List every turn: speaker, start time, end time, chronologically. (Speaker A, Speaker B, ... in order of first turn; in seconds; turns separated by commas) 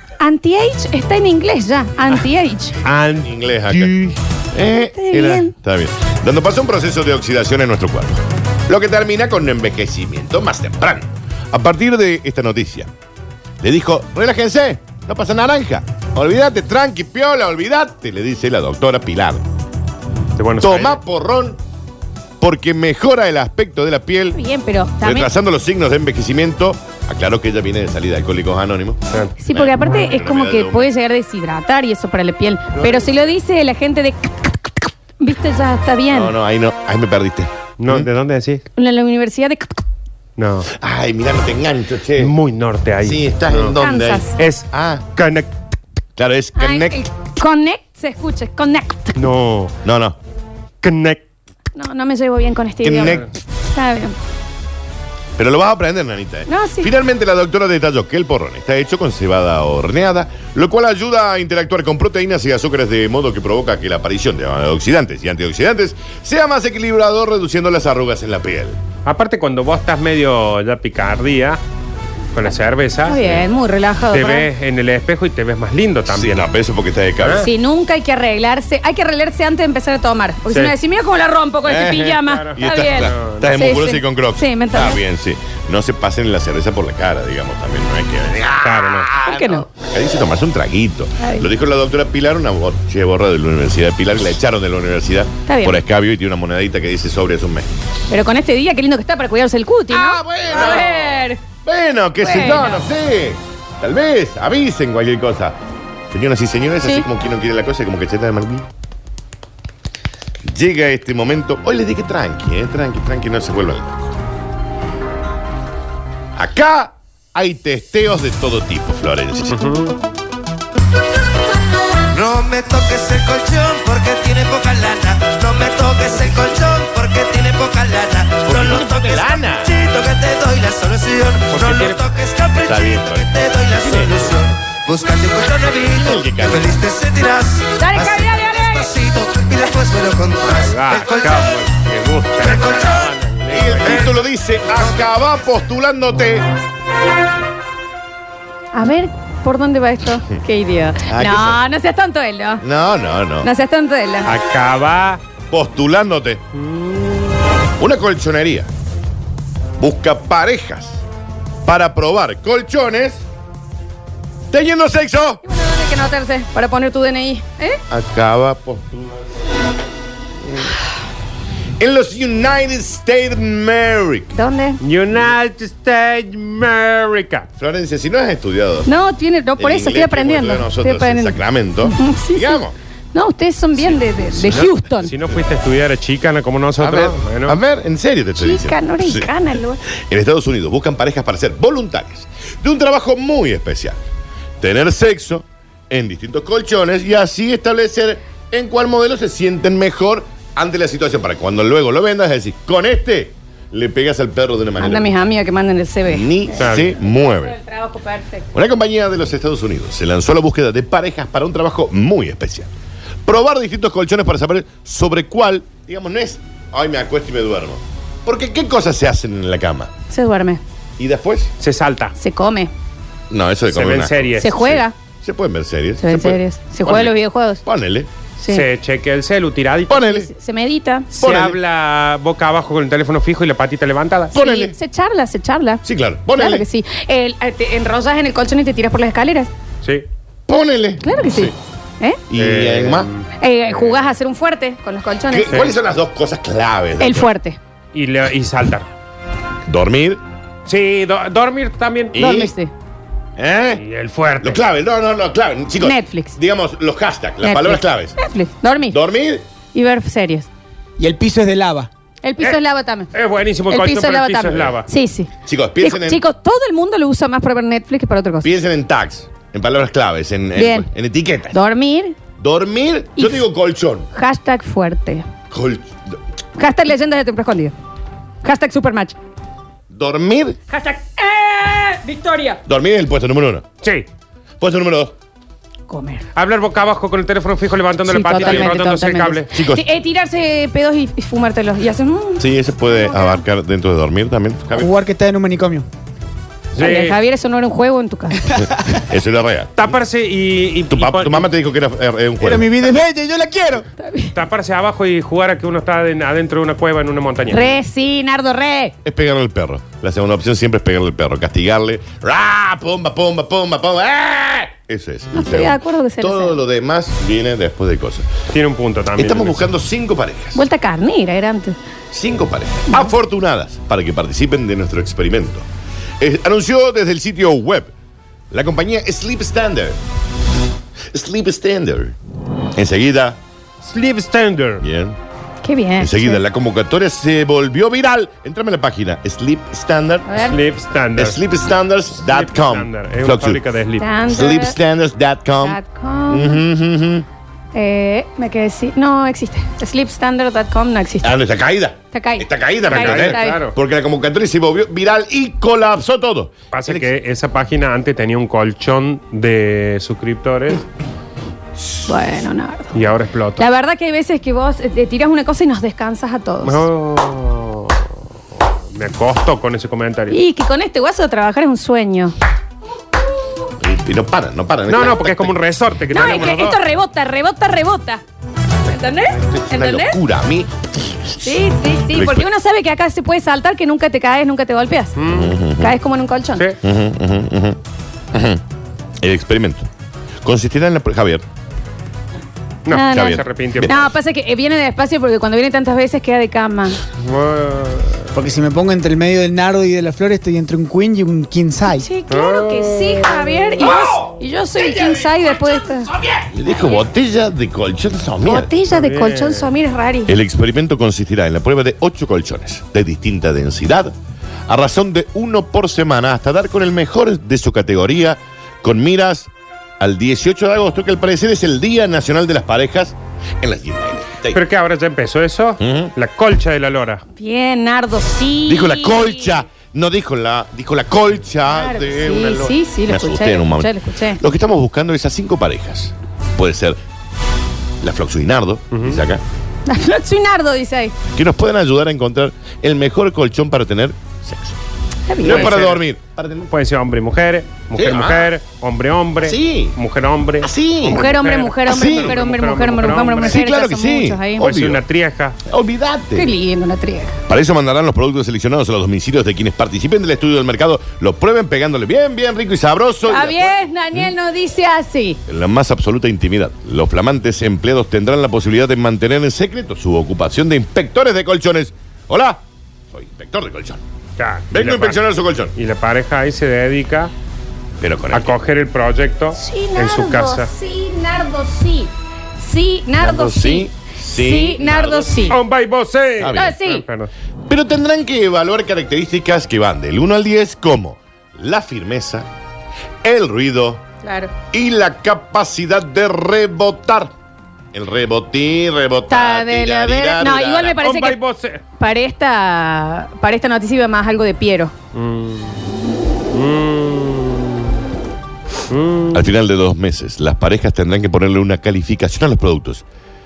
Speaker A: 0.2-2.8, Speaker B: 2.8-4.2, Speaker C: 3.2-4.0, Speaker C: 4.5-12.9, Speaker A: 5.0-5.5, Speaker B: 5.2-5.4, Speaker C: 13.6-19.4, Speaker B: 20.4-21.0, Speaker C: 20.6-21.6, Speaker C: 22.4-24.4, Speaker A: 24.3-25.3, Speaker C: 25.0-29.0, Speaker A: 29.4-36.4, Speaker C: 29.5-30.9, Speaker C: 32.7-33.3, Speaker C: 36.1-38.1, Speaker B: 37.8-38.6, Speaker A: 38.8-39.8, Speaker B: 40.4-40.7, Speaker C: 40.8-42.4, Speaker B: 42.2-43.7, Speaker C: 43.0-45.1, Speaker A: 43.8-44.4, Speaker B: 44.4-45.5, Speaker C: 46.2-47.0, Speaker A: 46.6-49.2, Speaker B: 49.2-49.7, Speaker C: 49.8-50.2, Speaker B: 50.8-51.2, Speaker A: 51.8-54.2, Speaker C: 52.8-53.3, Speaker C: 55.4-68.8, Speaker A: 56.5-56.9, Speaker B: 69.0-71.6, Speaker B: 72.3-73.4, Speaker A: 73.0-74.5, Speaker B: 74.1-76.5, Speaker C: 76.1-77.5, Speaker B: 77.2-77.5, Speaker A: 77.4-85.0, Speaker B: 80.5-80.7, Speaker C: 81.7-97.7, Speaker B: 82.1-83.5, Speaker B: 88.6-89.1, Speaker A: 89.2-89.7, Speaker A: 91.2-91.5, Speaker A: 95.5-95.8, Speaker A: 98.1-101.4, Speaker C: 99.9-105.6, Speaker A: 102.2-102.8, Speaker C: 106.1-108.7, Speaker C: 110.4-114.2, Speaker C: 116.4-119.6, Speaker B: 119.5-119.9, Speaker D: 122.1-141.7, Speaker C: 128.4-129.7, Speaker B: 131.5-132.0, Speaker C: 132.6-133.3, Speaker C: 133.8-134.4, Speaker C: 135.9-136.8, Speaker A: 137.8-138.9, Speaker B: 140.4-144.1, Speaker D: 142.4-143.2, Speaker C: 143.5-146.5, Speaker D: 143.8-144.1, Speaker D: 144.7-145.2, Speaker A: 148.7-152.6, Speaker C: 151.1-151.6, Speaker C: 152.6-153.5, Speaker A: 153.4-154.3, Speaker B: 154.2-155.2, Speaker C: 155.5-156.4, Speaker B: 156.5-157.4, Speaker C: 157.8-158.7, Speaker C: 159.8-161.0, Speaker C: 161.7-163.2, Speaker C: 164.5-165.4, Speaker A: 165.4-167.8, Speaker C: 167.9-169.2, Speaker C: 171.8-174.4, Speaker A: 174.3-174.8, Speaker B: 174.8-177.5, Speaker C: 177.6-178.9, Speaker A: 178.9-182.6, Speaker C: 179.6-182.8, Speaker A: 183.1-185.1, Speaker B: 184.5-187.6, Speaker C: 186.8-189.3, Speaker A: 188.4-189.8, Speaker C: 189.9-194.0, Speaker C: 194.6-205.1, Speaker A: 204.8-208.5, Speaker C: 206.1-207.6, Speaker B: 206.6-206.9, Speaker C: 208.5-212.7, Speaker C: 213.2-219.9, Speaker A: 220.1-220.6, Speaker C: 221.0-221.5, Speaker B: 221.6-222.1, Speaker A: 222.2-222.7, Speaker C: 223.3-228.1, Speaker B: 223.7-224.6, Speaker A: 224.4-224.9, Speaker A: 226.0-227.6, Speaker A: 228.4-228.7, Speaker B: 228.5-230.1, Speaker C: 229.9-230.3, Speaker A: 230.0-231.1, Speaker B: 231.1-234.4, Speaker C: 231.2-231.6, Speaker C: 234.3-234.8, Speaker A: 234.3-239.5, Speaker C: 235.8-236.7, Speaker C: 240.5-241.5, Speaker A: 241.0-242.2, Speaker C: 242.3-243.1, Speaker B: 242.3-244.0, Speaker A: 243.4-245.7, Speaker C: 245.3-247.3, Speaker A: 247.0-247.6, Speaker B: 247.9-248.9, Speaker C: 249.7-250.2, Speaker B: 250.7-252.2, Speaker C: 252.1-252.5, Speaker A: 252.2-252.7, Speaker C: 253.4-253.8, Speaker B: 253.8-254.6, Speaker C: 254.4-258.2, Speaker A: 255.8-256.4, Speaker A: 257.4-259.0, Speaker C: 258.9-259.4, Speaker A: 259.7-260.5, Speaker E: 261.0-261.9, Speaker A: 262.2-263.1, Speaker B: 263.1-264.9, Speaker A: 263.7-268.5, Speaker C: 265.5-266.2, Speaker C: 268.4-271.6, Speaker A: 270.6-270.9, Speaker A: 271.5-272.2, Speaker C: 272.4-274.1, Speaker A: 273.2-273.4, Speaker A: 274.1-275.3, Speaker C: 275.5-275.9, Speaker A: 276.6-277.8, Speaker A: 278.4-279.2, Speaker C: 279.9-280.6, Speaker A: 280.7-282.6, Speaker C: 282.7-283.6, Speaker B: 283.8-284.1, Speaker C: 284.6-285.1, Speaker A: 285.9-286.3, Speaker B: 286.4-289.5, Speaker A: 288.1-293.4, Speaker C: 288.4-288.7, Speaker C: 289.5-289.9, Speaker C: 292.4-294.9, Speaker E: 294.7-295.9, Speaker B: 296.7-297.2, Speaker A: 296.8-298.5, Speaker E: 298.5-298.9, Speaker C: 298.9-300.0, Speaker B: 299.8-301.5, Speaker C: 300.9-303.0, Speaker E: 302.4-303.9, Speaker A: 304.0-304.4, Speaker B: 304.3-307.7, Speaker A: 307.5-308.9, Speaker C: 309.0-318.3, Speaker A: 315.3-316.6, Speaker B: 318.5-319.6, Speaker C: 319.1-320.6, Speaker A: 320.5-321.8, Speaker C: 322.1-325.7, Speaker C: 326.2-327.9, Speaker C: 328.5-330.0, Speaker C: 331.1-332.2, Speaker C: 332.8-333.4, Speaker B: 333.8-334.9, Speaker C: 334.8-335.2, Speaker A: 335.6-336.4, Speaker C: 336.0-340.5, Speaker A: 340.3-340.6, Speaker B: 340.5-341.4, Speaker C: 341.1-343.6, Speaker B: 342.2-344.1, Speaker A: 344.0-344.8, Speaker C: 344.3-347.2, Speaker A: 345.6-346.6, Speaker A: 347.8-351.4, Speaker C: 351.2-357.1, Speaker A: 352.1-353.6, Speaker B: 352.9-353.8, Speaker B: 356.7-360.8, Speaker A: 362.1-363.0, Speaker B: 362.9-363.7, Speaker A: 363.6-366.9, Speaker B: 366.6-368.0, Speaker B: 368.9-370.4, Speaker A: 370.3-372.4, Speaker C: 373.8-375.5, Speaker B: 374.9-376.8, Speaker A: 376.1-378.2, Speaker A: 378.9-380.2, Speaker C: 379.3-382.5, Speaker A: 381.4-385.2, Speaker B: 385.2-385.6, Speaker C: 385.3-386.0, Speaker A: 385.8-386.7, Speaker C: 386.8-387.8, Speaker C: 388.3-388.6, Speaker C: 389.2-389.9, Speaker C: 390.4-391.4, Speaker B: 392.9-393.9, Speaker A: 392.9-397.0, Speaker C: 393.0-394.1, Speaker B: 397.2-398.2, Speaker E: 398.3-402.1, Speaker A: 401.9-406.1, Speaker B: 402.3-403.2, Speaker C: 406.3-408.7, Speaker A: 406.8-407.0, Speaker A: 408.4-410.4, Speaker B: 408.9-409.7, Speaker C: 410.2-414.1, Speaker C: 414.7-424.6, Speaker B: 424.5-427.2, Speaker C: 425.8-426.1, Speaker A: 427.4-429.5, Speaker C: 428.7-437.0, Speaker A: 431.7-434.4, Speaker C: 438.0-439.4, Speaker B: 438.9-439.2, Speaker A: 439.9-441.1, Speaker C: 441.4-444.8, Speaker A: 445.3-445.8, Speaker C: 445.4-446.7, Speaker B: 445.4-446.0, Speaker B: 446.7-453.6, Speaker C: 447.9-448.5, Speaker C: 449.4-450.0, Speaker C: 450.6-451.3, Speaker A: 451.1-454.6, Speaker C: 451.9-452.4, Speaker C: 453.4-455.0, Speaker B: 454.6-455.6, Speaker C: 455.6-456.6, Speaker A: 456.4-457.4, Speaker C: 457.5-464.3, Speaker A: 463.2-465.4, Speaker C: 465.5-474.0, Speaker B: 474.4-475.2, Speaker C: 474.7-475.7, Speaker B: 475.8-477.3, Speaker C: 478.0-478.6, Speaker B: 478.3-480.7, Speaker A: 479.5-485.6, Speaker C: 483.2-485.6, Speaker B: 485.5-487.3, Speaker C: 486.4-486.8, Speaker A: 486.5-487.0, Speaker C: 487.7-492.5, Speaker C: 493.2-494.0, Speaker A: 494.2-494.5, Speaker C: 494.7-497.3, Speaker C: 497.9-501.0, Speaker A: 499.3-501.4, Speaker B: 501.0-501.8, Speaker A: 502.0-504.9, Speaker B: 505.1-505.8, Speaker B: 506.5-507.9, Speaker B: 508.9-509.4, Speaker C: 509.3-513.0